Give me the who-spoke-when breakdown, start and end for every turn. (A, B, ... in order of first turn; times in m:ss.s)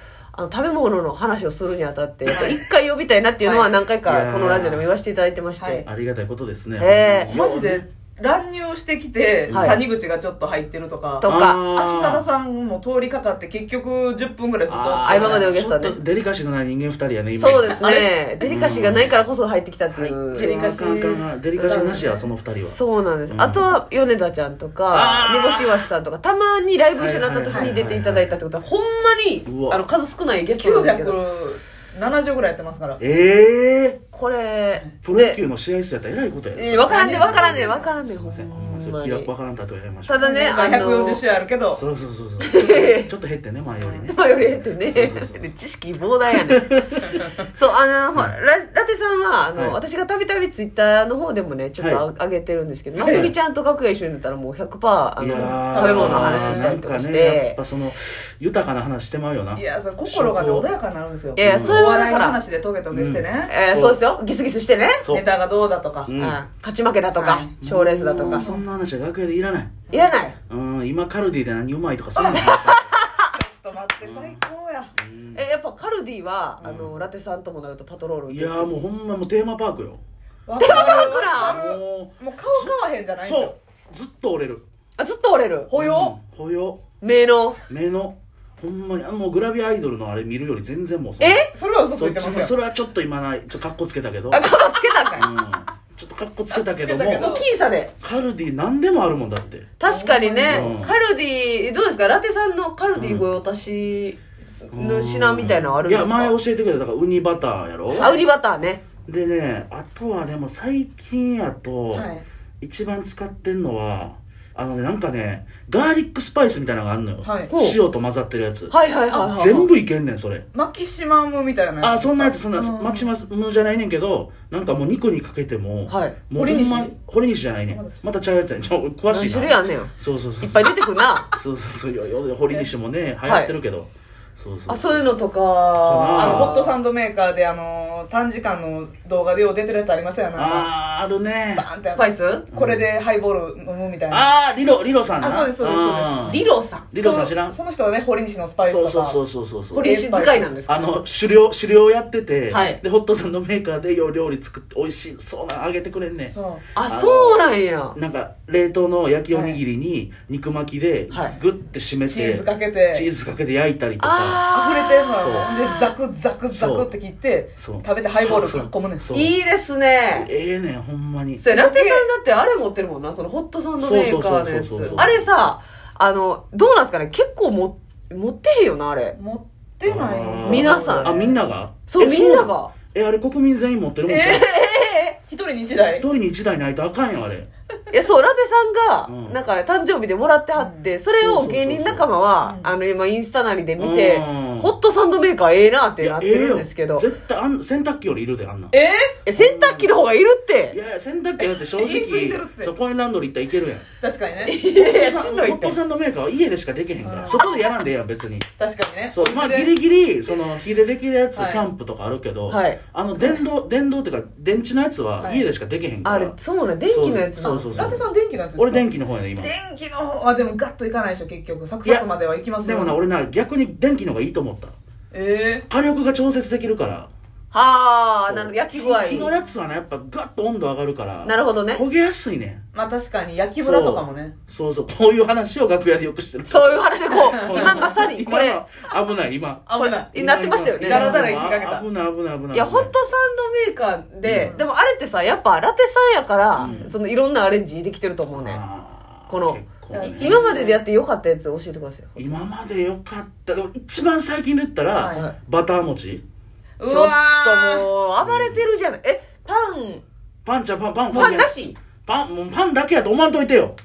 0:00.3-0:05.8 A
0:02.3-0:02.6 B
0:03.4-0:03.7 B
0:04.0-0:04.8 C
0:05.6-0:05.9 B
0:05.8-0:07.8 C
0:06.8-0:07.3 A
0:07.3-0:15.6 B
0:09.5-0:09.8 C
0:09.5-0:09.8 A
0:11.2-0:11.6 A
0:11.2-0:12.2 C
0:14.7-0:17.8 C
0:15.0-0:16.0 A
0:17.4-0:20.5 A
0:17.4-0:18.1 B
0:18.4-0:19.2 C
0:19.9-0:22.8 C
0:20.2-0:22.3 B
0:21.7-0:22.0 A
0:22.6-0:31.2 A
0:23.3-0:23.7 C
0:24.9-0:25.9 C
0:27.0-0:28.3 C
0:27.5-0:27.8 B
0:29.4-0:29.8 C
0:30.6-0:33.0 B
0:33.0-0:34.0 C
0:34.1-0:35.4 A
0:35.0-0:37.6 C
0:36.6-0:39.3 A
0:36.8-0:38.0 B
0:38.1-0:40.2 C
0:40.1-0:41.2 A
0:40.2-0:41.8 B
0:41.7-0:45.4 C
0:42.4-0:43.1 A
0:43.8-0:44.1 B
0:44.1-0:57.6 A
0:46.5-0:46.9 C
0:51.8-0:52.0 C
0:53.0-0:53.3 B
0:53.0-0:53.3 C
0:55.2-1:00.7 C
0:55.3-0:56.8 B
0:59.5-1:03.5 B
1:01.4-1:02.4 A
1:01.4-1:01.8 C
1:02.9-1:04.0 C
1:03.5-1:05.0 A
1:05.0-1:06.1 B
1:06.0-1:06.4 C
1:06.2-1:08.4 A
1:07.2-1:07.5 B
1:07.6-1:09.8 C
1:08.2-1:08.6 B
1:09.9-1:10.4 A
1:09.9-1:10.2 B
1:10.5-1:12.9 C
1:12.3-1:13.2 A
1:13.3-1:14.9 B
1:14.0-1:14.4 C
1:15.0-1:15.4 C
1:15.3-1:18.8 A
1:16.6-1:17.0 C
1:18.3-1:20.0 C
1:20.5-1:23.6 B
1:20.6-1:21.6 A
1:20.6-1:24.6 C
1:25.0-1:25.7 A
1:25.7-1:26.1 B
1:25.8-1:26.8 C
1:27.0-1:27.6 A
1:27.7-1:31.4 C
1:31.2-1:31.5 A
1:31.5-1:32.6 B
1:32.0-1:34.5 C
1:34.3-1:35.3 A
1:35.2-1:37.3 C
1:36.5-1:37.4 B
1:37.1-1:37.9 A
1:38.0-1:39.7 C
1:39.8-1:46.4 A
1:39.8-1:40.7 B
1:40.4-1:40.9 C
1:42.9-1:43.3 C
1:44.7-1:48.1 C
1:47.9-1:48.2 B
1:47.9-1:48.8 A
1:49.1-1:52.1 C
1:51.9-1:52.2 B
1:52.6-2:00.4 C
1:57.2-1:57.5 B
1:57.5-1:57.8 A
1:58.7-1:59.7 A
2:00.5-2:03.1 B
2:01.8-2:10.7 C
2:05.9-2:06.2 A
2:06.3-2:06.9 B
2:07.7-2:08.0 B
2:09.1-2:11.3 A
2:11.3-2:15.1 C
2:13.2-2:13.5 A
2:14.7-2:16.7 A
2:15.8-2:16.6 C
2:16.1-2:20.7 B
2:20.4-2:21.6 C
2:21.5-2:24.3 B
2:21.9-2:22.4 A
2:22.5-2:22.8 C
2:24.1-2:27.5 C
2:25.2-2:26.2 B
2:26.2-2:26.9 A
2:27.0-2:29.2 B
2:28.6-2:29.9 C
2:29.7-2:31.0 A
2:29.8-2:30.5 B
2:30.6-2:44.4 C
2:32.5-2:32.8 A
2:36.3-2:36.7 B
2:36.7-2:38.0 A
2:39.3-2:39.6 B
2:41.1-2:41.4 B
2:42.1-2:43.1 B
2:44.0-2:45.9 A
2:44.5-2:49.1 B
2:45.2-2:45.5 C
2:46.5-2:46.9 C
2:47.6-2:49.3 C
2:49.1-2:50.3 A
2:50.1-2:51.4 C
2:51.4-2:59.2 A
2:51.5-2:52.1 B
2:53.8-2:55.3 C
2:59.1-3:01.4 B
2:59.8-3:04.5 C
3:00.4-3:01.2 A
3:01.9-3:02.7 A
3:04.1-3:04.5 B
3:04.1-3:05.2 A
3:05.3-3:06.0 B
3:06.0-3:07.5 C
3:07.9-3:17.1 A
3:09.0-3:09.4 C
3:10.6-3:10.9 B
3:11.1-3:12.1 C
3:12.4-3:12.7 B
3:13.8-3:14.7 C
3:16.0-3:18.7 C
3:18.7-3:19.2 B
3:19.2-3:20.8 A
3:19.4-3:20.0 C
3:20.7-3:23.9 C
3:21.4-3:22.7 B
3:24.0-3:24.6 B
3:24.4-3:25.8 A
3:24.7-3:28.5 C
3:27.0-3:27.4 B
3:28.6-3:29.7 B
3:29.1-3:36.3 C
3:31.3-3:31.7 B
3:32.5-3:32.8 A
3:35.2-3:35.5 B
3:36.0-3:37.9 A
3:36.9-3:38.0 C
3:37.7-3:43.0 B
3:38.6-3:39.5 C
3:42.6-3:44.7 C
3:45.1-3:45.6 B
3:45.7-3:47.1 C
3:47.5-3:49.3 A
3:48.2-3:52.6 C
3:51.2-3:51.8 A
3:52.7-3:54.4 B
3:53.6-4:02.9 C
3:56.5-3:58.6 A
3:57.1-3:57.9 B
3:59.7-4:00.1 B
4:00.1-4:01.4 A
4:00.8-4:01.8 B
4:02.5-4:08.6 A
4:04.2-4:04.5 C
4:04.4-4:04.7 B
4:06.6-4:06.9 B
4:06.6-4:06.9 C
4:08.3-4:10.4 C
4:09.3-4:12.4 A
4:09.9-4:10.8 B
4:12.2-4:16.2 C
4:14.9-4:15.3 B
4:16.8-4:17.8 B
4:16.9-4:20.0 A
4:18.2-4:18.6 C
4:20.4-4:21.5 C
4:21.1-4:21.8 A
4:22.0-4:23.8 C